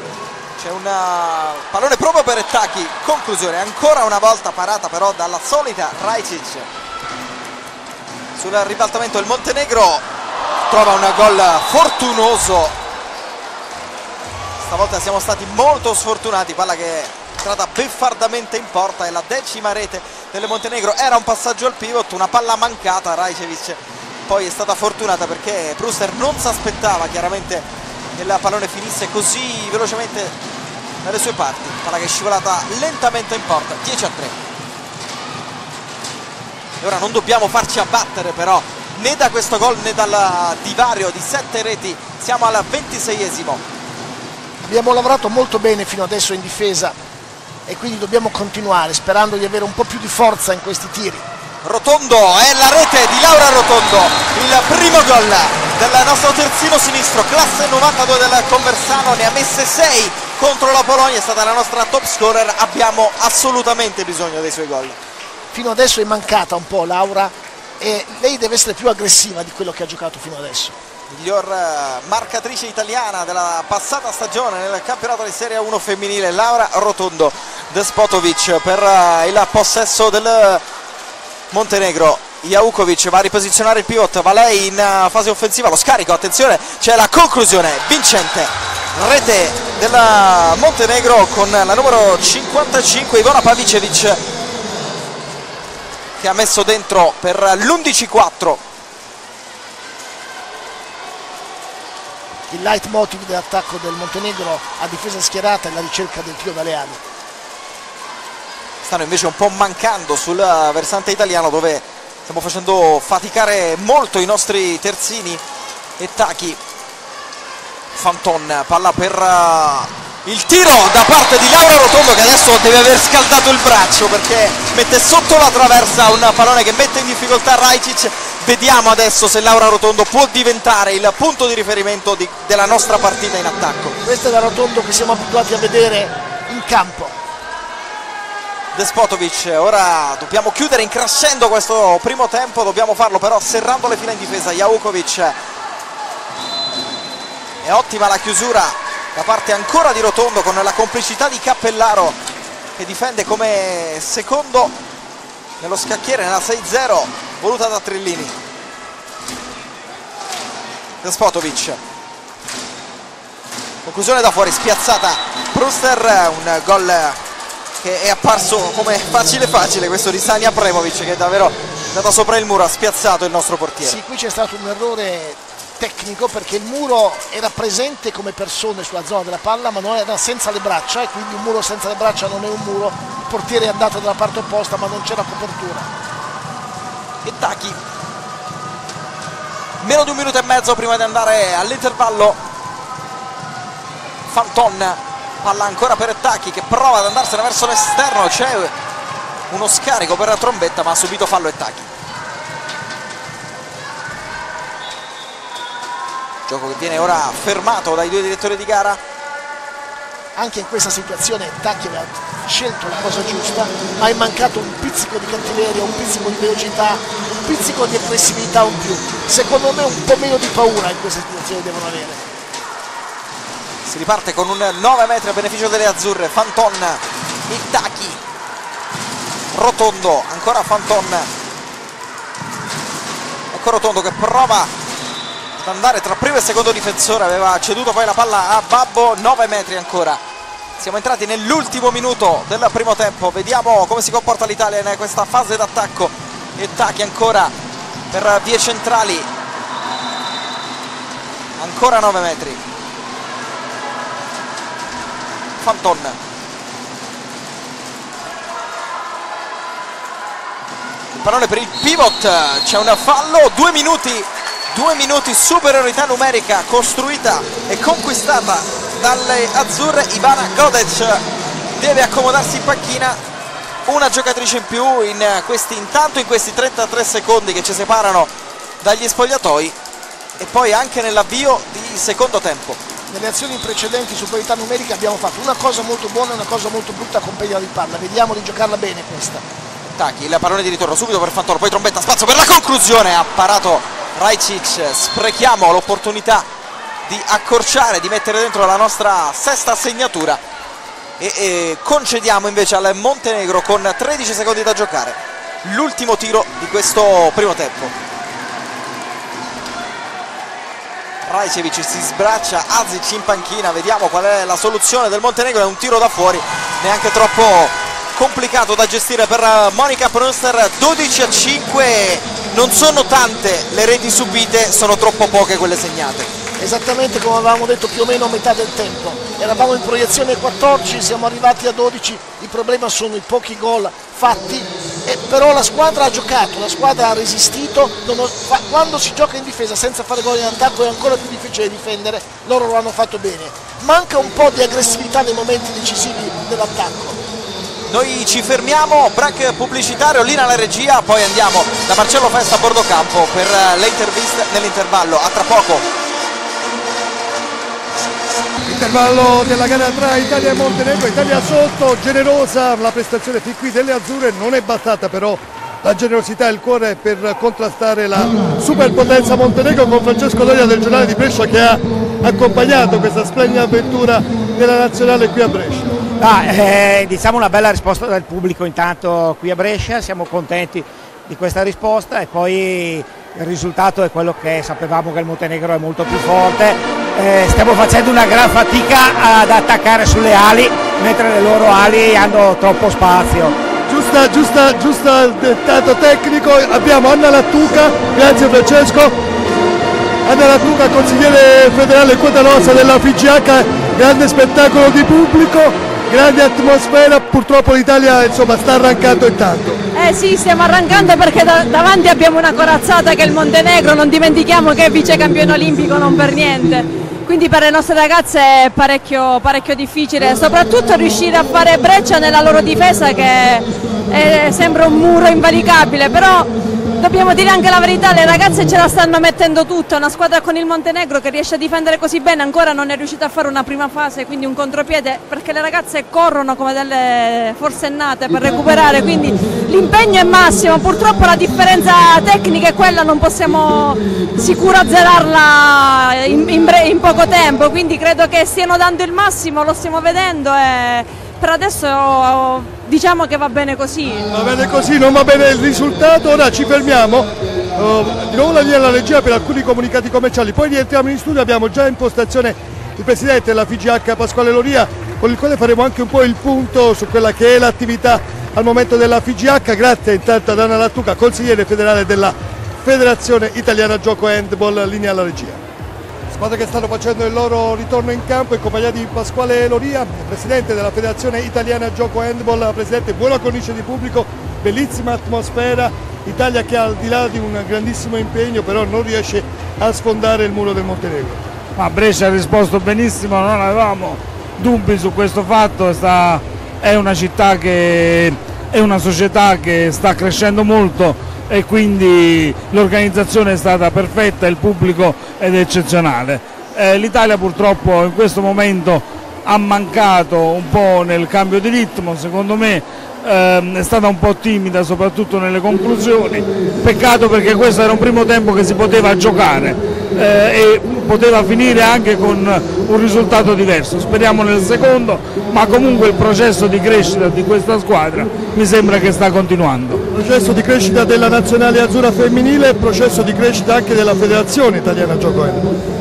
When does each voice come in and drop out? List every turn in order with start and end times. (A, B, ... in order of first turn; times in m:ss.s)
0:00.6-0:06.7 A
0:08.4-0:10.0 A
0:10.7-0:12.7 A
0:14.6-0:30.3 A
0:31.0-0:34.3 A
0:36.8-0:43.6 A
0:44.6-0:47.0 B
0:47.7-0:51.2 B
0:51.6-1:05.0 A
1:05.5-1:10.8 B
1:11.1-1:20.6 A
1:21.5-1:34.2 A
1:36.2-1:38.6 A
1:42.5-1:47.0 B
1:48.8-1:55.4 A
1:56.0-1:56.6 A
1:57.9-2:14.0 A
2:14.0-2:17.2 B
2:18.7-2:25.4 A
2:27.6-2:32.2 A
2:32.8-2:34.7 A
2:35.6-2:38.3 A
2:41.0-2:41.8 A
2:43.8-2:47.2 A
2:47.8-2:54.0 A
2:53.8-3:05.9 B
3:07.2-3:07.8 A
3:09.8-3:12.4 A
3:14.3-3:18.7 A
3:19.5-3:21.9 A
3:26.5-3:29.0 A
3:30.4-3:42.2 B
3:43.8-3:48.2 A
3:49.5-3:51.3 A
3:53.5-3:54.7 A
3:55.6-4:00.2 A
4:00.8-4:07.5 A
4:08.1-4:09.3 A
4:11.6-4:12.6 A
4:15.6-4:16.2 A
4:21.2-4:31.2 A
4:31.8-4:33.2 A
4:33.8-4:38.3 A
4:38.8-4:39.8 A
4:40.4-4:42.8 A
4:43.1-4:49.4 B
4:49.8-4:56.5 A
4:57.0-5:00.4 A
5:01.2-5:07.9 A
5:11.2-5:26.3 A
5:26.6-5:47.2 B
5:47.9-5:55.8 A
5:58.7-6:16.0 C
6:16.2-6:33.6 D
6:33.9-6:39.1 C
6:40.2-6:49.8 C
6:49.9-7:34.3 E
7:34.3-7:55.6 C
7:56.3-8:11.4 C
8:11.8-8:50.0 F
8:50.1-8:55.7 C